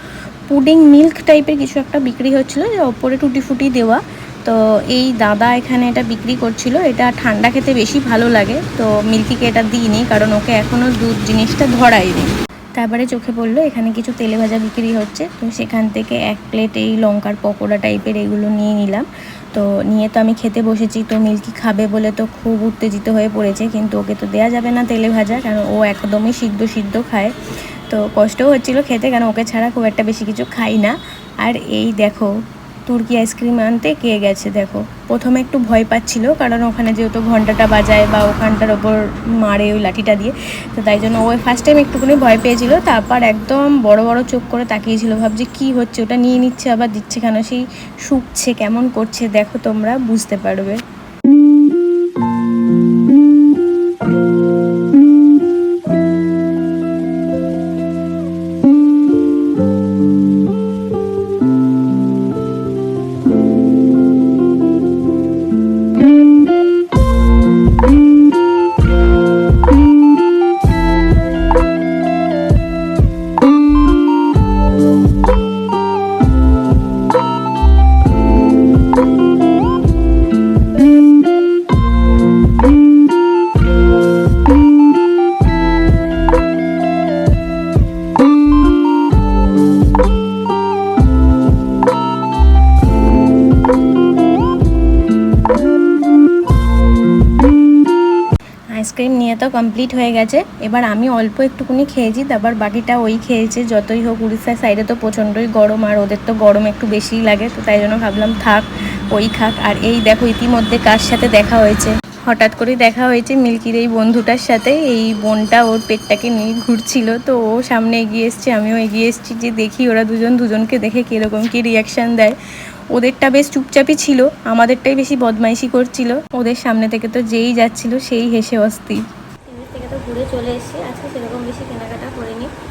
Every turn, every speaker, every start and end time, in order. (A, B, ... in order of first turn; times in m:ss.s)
0:00.5-0:27.3 A
0:27.9-0:32.3 A
0:32.8-0:50.8 A
1:38.7-2:02.4 A
2:02.9-2:12.5 A